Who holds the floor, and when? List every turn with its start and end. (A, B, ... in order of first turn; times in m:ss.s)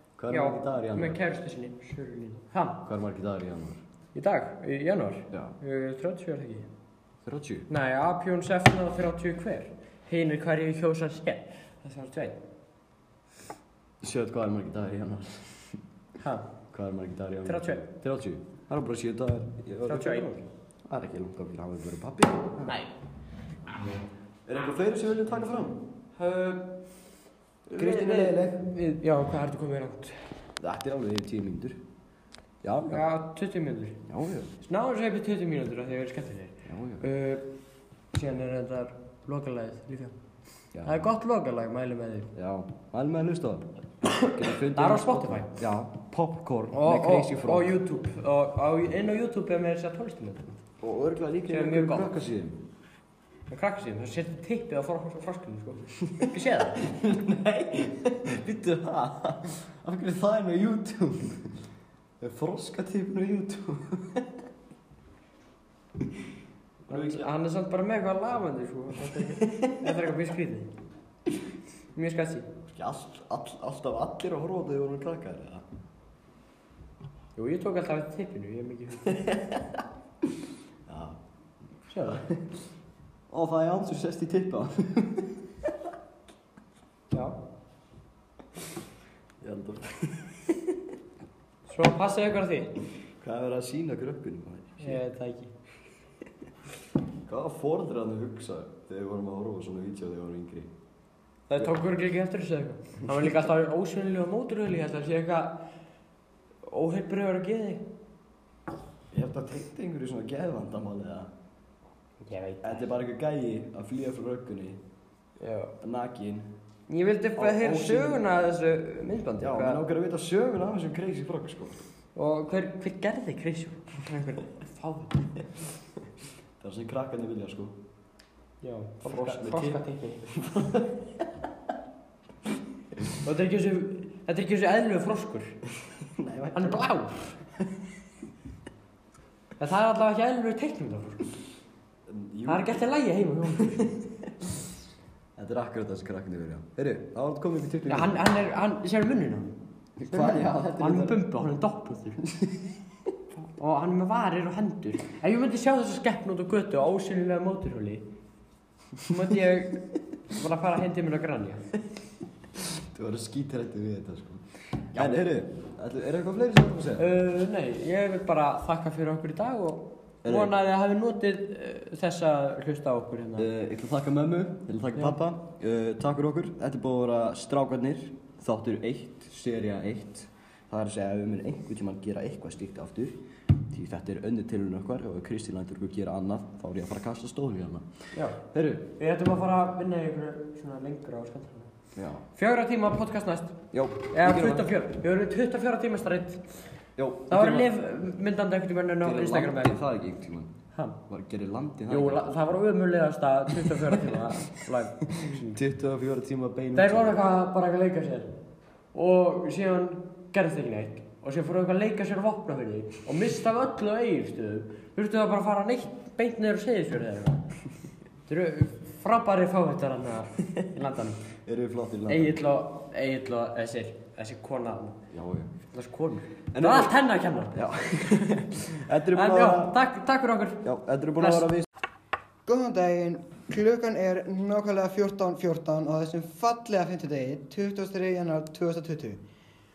0:00.2-0:01.2 A
0:00.3-0:02.8 B
0:02.8-0:03.8 A
0:04.1-0:06.7 B
0:05.3-0:05.6 A
0:07.2-0:07.7 A
0:07.7-0:12.4 B
0:14.0-0:15.8 A
0:16.2-0:16.4 B
0:16.7-0:20.3 A
0:17.4-0:17.8 B
0:19.8-0:20.4 B
0:20.9-0:22.8 A
0:22.6-0:22.9 B
0:24.5-0:25.8 A
0:24.9-0:25.2 B
0:26.2-0:26.6 B
0:27.7-0:28.7 A
0:27.7-0:30.3 B
0:30.6-0:31.8 A
0:32.6-0:33.0 A
0:32.9-0:34.0 B
0:34.1-0:34.5 A
0:34.6-0:37.5 B
0:36.6-0:37.1 A
0:38.1-0:40.1 B
0:40.7-0:41.1 A
0:40.8-0:42.3 B
0:42.3-0:43.7 A
0:44.0-0:45.5 B
0:44.3-0:47.8 A
0:46.7-0:50.6 B
0:50.8-0:52.6 A
0:51.5-0:52.1 B
0:53.5-0:56.8 B
0:56.2-1:01.5 A
1:02.2-1:04.3 A
1:06.8-1:07.3 A
1:06.9-1:10.7 B
1:09.4-1:09.7 A
1:11.9-1:12.5 B
1:12.7-1:15.6 A
1:17.4-1:19.3 B
1:19.2-1:19.8 A
1:20.9-1:21.2 A
1:21.9-1:22.2 B
1:22.0-1:22.5 A
1:23.3-1:25.7 A
1:27.1-1:27.4 B
1:29.4-1:30.8 A
1:31.7-1:32.7 B
1:33.2-1:35.0 A
1:34.8-1:35.5 B
1:37.3-1:40.7 A
1:41.5-1:45.6 B
1:46.6-1:47.8 B
1:49.1-1:51.3 A
1:52.2-1:52.9 B
1:52.6-1:54.8 A
1:55.4-1:55.7 B
1:55.8-1:56.5 A
1:56.9-1:59.8 B
1:57.4-1:58.2 A
1:59.4-2:01.8 A
2:02.1-2:05.4 B
2:06.6-2:07.7 A
2:08.6-2:10.2 B
2:09.1-2:11.0 A
2:13.1-2:15.6 B
2:16.0-2:16.9 A
2:16.5-2:17.3 B
2:19.6-2:21.3 B
2:22.1-2:22.7 A
2:22.5-2:23.9 B
2:25.4-2:28.2 A
2:27.9-2:29.6 B
2:30.0-2:31.2 A
2:30.1-2:32.2 B
2:32.3-2:32.7 A
2:33.3-2:38.0 B
2:39.0-2:41.6 B
2:42.6-2:47.1 A
2:44.9-2:45.2 B
2:47.0-2:53.5 B
2:50.2-2:50.5 A
2:53.4-3:03.2 A
3:03.7-3:07.8 A
3:08.1-3:08.4 B
3:08.5-3:08.9 A
3:09.0-3:11.7 B
3:11.9-3:12.2 A
3:12.3-3:13.6 B
3:13.7-3:14.7 A
3:14.1-3:16.6 B
3:17.0-3:17.7 A
3:17.3-3:19.8 B
3:19.0-3:20.5 A
3:21.1-3:22.5 A
3:21.9-3:25.6 B
3:23.6-3:24.2 A
3:25.1-3:27.2 A
3:26.7-3:28.3 B
3:28.9-3:37.4 B
3:38.3-3:41.2 B
3:41.4-3:42.4 A
3:42.1-3:45.0 B
3:45.1-3:45.5 A
3:45.7-3:47.6 B
3:46.5-3:47.0 A
3:47.5-3:49.8 A
3:49.1-3:50.6 B
3:50.6-3:51.7 A
3:51.2-3:51.5 B
3:52.4-3:59.2 C